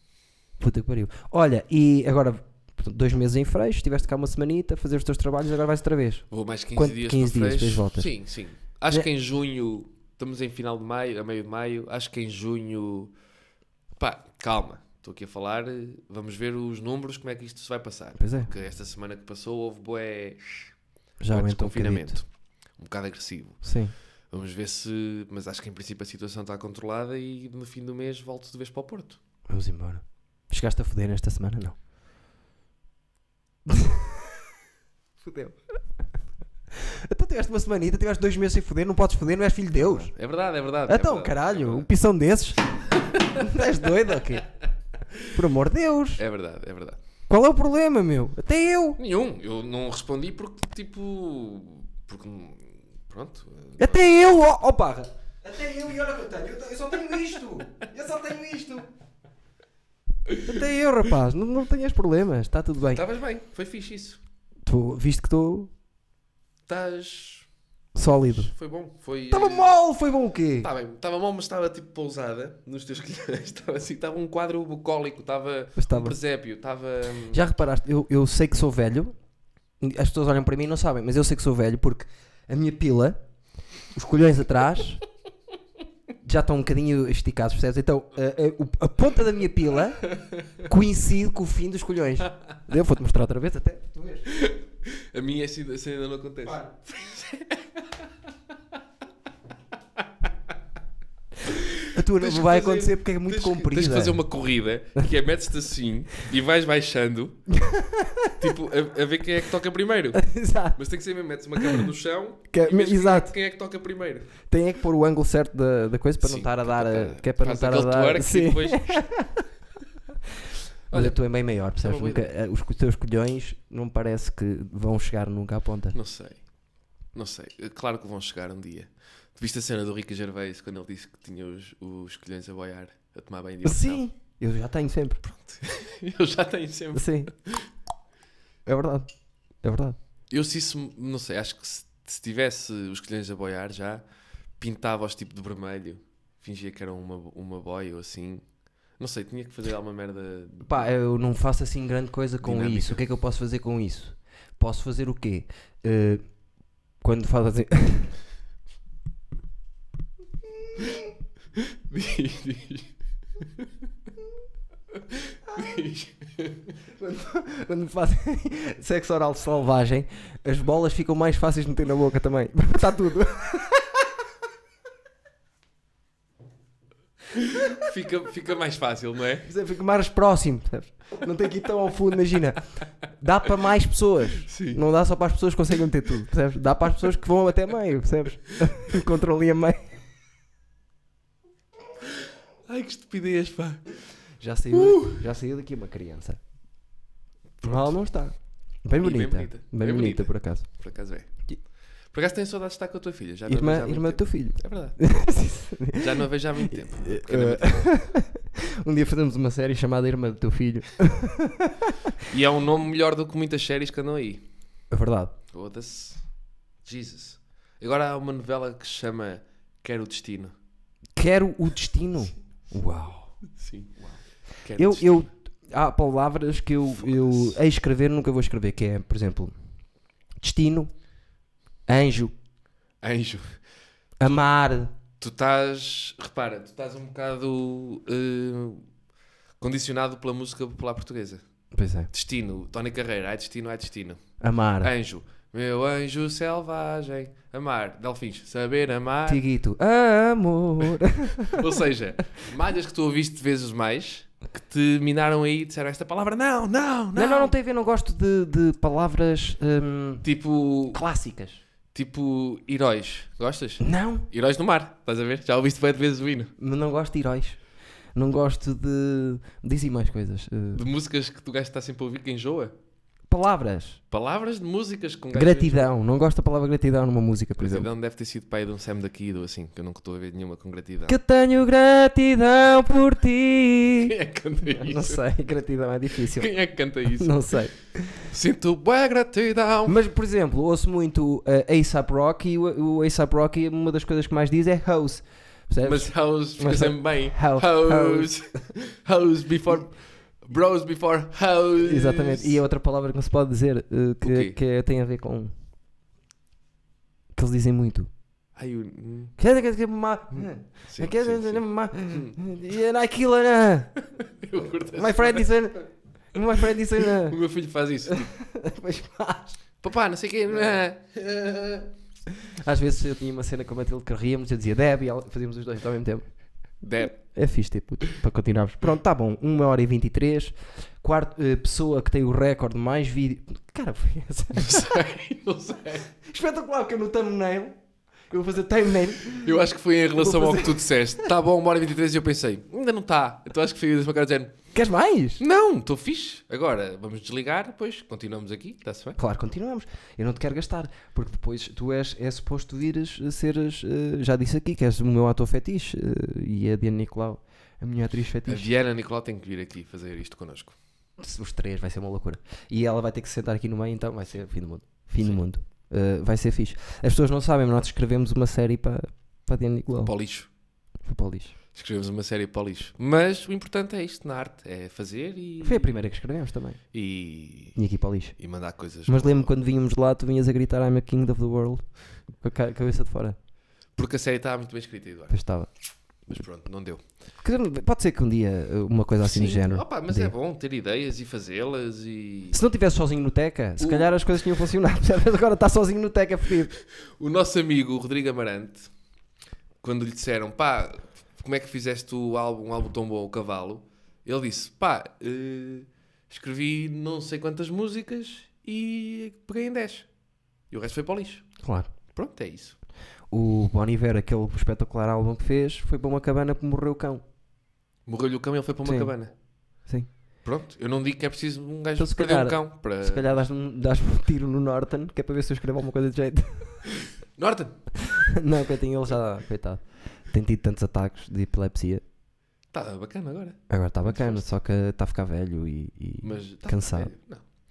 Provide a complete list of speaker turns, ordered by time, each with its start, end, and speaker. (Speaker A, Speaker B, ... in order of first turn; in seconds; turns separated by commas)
Speaker A: 0.6-8.1, Speaker B: 6.3-13.1, Speaker B: 14.0-20.7, Speaker A: 18.2-18.5, Speaker A: 21.2-22.2, Speaker B: 21.3-23.6, Speaker A: 23.6-23.9, Speaker B: 24.3-29.2, Speaker A: 29.5-31.8, Speaker A: 33.7-34.3, Speaker A: 35.2-35.6, Speaker A: 36.7-40.1, Speaker B: 39.8-41.9, Speaker A: 40.9-44.5, Speaker B: 43.0-43.5, Speaker A: 45.3-46.2, Speaker B: 46.2-47.0, Speaker A: 47.3-49.0, Speaker B: 49.0-54.2, Speaker A: 53.8-58.9, Speaker A: 60.4-63.0, Speaker B: 62.9-64.2, Speaker A: 64.7-65.7, Speaker B: 66.7-67.5, Speaker A: 68.0-68.5, Speaker B: 68.3-69.7, Speaker A: 69.3-70.7, Speaker B: 70.6-77.4, Speaker A: 75.8-76.2, Speaker A: 77.3-79.2, Speaker A: 79.8-83.2, Speaker A: 83.9-85.0, Speaker A: 86.2-94.3, Speaker B: 90.2-90.5, Speaker B: 94.3-98.1, Speaker B: 101.5-107.4, Speaker A: 101.9-104.2, Speaker A: 107.5-108.4, Speaker B: 108.4-114.3, Speaker A: 110.1-110.8, Speaker A: 111.6-111.9, Speaker A: 112.5-113.3, Speaker A: 114.5-119.5, Speaker B: 116.2-119.1, Speaker B: 120.9-121.2, Speaker A: 120.9-126.0, Speaker B: 121.8-122.3, Speaker B: 125.9-126.4, Speaker B: 127.2-134.0, Speaker A: 133.6-135.2, Speaker B: 135.2-137.7, Speaker A: 136.9-137.3, Speaker A: 138.7-139.1, Speaker A: 139.6-140.0, Speaker B: 140.3-144.0, Speaker B: 144.6-148.4, Speaker B: 149.0-150.8, Speaker A: 150.6-156.3, Speaker B: 152.4-153.0, Speaker A: 157.0-158.2, Speaker B: 161.6-163.8, Speaker B: 164.9-166.8, Speaker A: 167.0-174.0, Speaker B: 177.4-179.5, Speaker A: 179.5-189.9, Speaker B: 184.5-184.8, Speaker B: 192.1-193.8, Speaker A: 194.4-196.4, Speaker B: 194.7-195.2, Speaker B: 197.6-197.9, Speaker A: 197.6-200.7, Speaker B: 199.0-201.3, Speaker B: 202.1-205.0, Speaker A: 203.5-212.2, Speaker B: 205.9-207.9, Speaker B: 212.3-214.4, Speaker A: 214.9-215.3, Speaker B: 215.5-216.2, Speaker B: 216.8-220.5, Speaker A: 221.2-223.3, Speaker B: 223.5-225.3, Speaker A: 224.8-229.5, Speaker B: 227.0-227.6, Speaker A: 230.4-230.9, Speaker A: 231.9-232.3, Speaker B: 233.0-233.5, Speaker A: 234.2-234.9, Speaker B: 235.2-238.8, Speaker B: 239.6-241.4, Speaker A: 241.7-242.1, Speaker B: 242.1-244.2, Speaker A: 244.4-244.9, Speaker B: 244.8-249.4, Speaker A: 249.3-251.7, Speaker B: 251.4-257.5, Speaker A: 257.1-260.3, Speaker B: 260.2-261.0, Speaker A: 260.9-261.6, Speaker B: 261.9-266.5, Speaker A: 263.8-264.3, Speaker A: 266.6-267.6, Speaker A: 268.1-270.8, Speaker B: 270.7-272.7, Speaker A: 273.3-274.0, Speaker B: 274.1-275.9, Speaker A: 275.3-277.9, Speaker B: 277.6-281.2, Speaker A: 281.1-284.1, Speaker B: 284.0-285.2, Speaker A: 284.7-286.5, Speaker B: 286.2-287.6, Speaker A: 287.1-288.3, Speaker B: 288.2-290.0, Speaker A: 289.9-298.3, Speaker B: 295.8-302.6, Speaker A: 301.8-305.5, Speaker B: 304.2-304.6, Speaker A: 307.4-308.1, Speaker B: 308.6-309.4, Speaker A: 309.4-314.0, Speaker B: 310.4-312.4, Speaker B: 314.1-315.5, Speaker A: 314.9-317.4, Speaker B: 317.0-318.3, Speaker A: 318.1-319.6, Speaker B: 319.8-321.9, Speaker A: 322.4-326.2, Speaker B: 326.8-327.2, Speaker A: 327.3-334.9, Speaker B: 334.6-336.1, Speaker A: 336.2-337.8, Speaker A: 338.3-339.6, Speaker B: 339.3-344.5, Speaker A: 340.2-340.9, Speaker A: 344.7-345.4, Speaker B: 345.4-349.2, Speaker A: 349.2-358.7, Speaker B: 358.5-360.8, Speaker A: 361.2-370.1, Speaker B: 370.0-370.5, Speaker A: 371.0-371.6, Speaker B: 371.7-376.0, Speaker A: 375.6-376.8, Speaker B: 376.9-377.8, Speaker A: 377.8-378.4, Speaker B: 378.4-379.5, Speaker A: 379.1-381.9, Speaker A: 382.4-383.4, Speaker B: 384.0-385.4, Speaker A: 385.3-385.7, Speaker B: 386.3-387.0, Speaker A: 387.4-390.3, Speaker B: 389.2-392.6, Speaker A: 392.5-396.7, Speaker B: 393.8-394.2, Speaker B: 396.8-398.9, Speaker B: 399.8-410.1, Speaker B: 410.7-411.5, Speaker A: 411.6-411.9, Speaker B: 412.1-412.8, Speaker A: 413.3-417.2, Speaker B: 418.1-419.3, Speaker A: 418.9-419.1, Speaker B: 420.4-423.4, Speaker A: 422.0-426.9, Speaker B: 427.4-427.8, Speaker A: 428.0-432.0, Speaker B: 432.7-434.4, Speaker A: 433.7-437.1, Speaker B: 436.2-437.5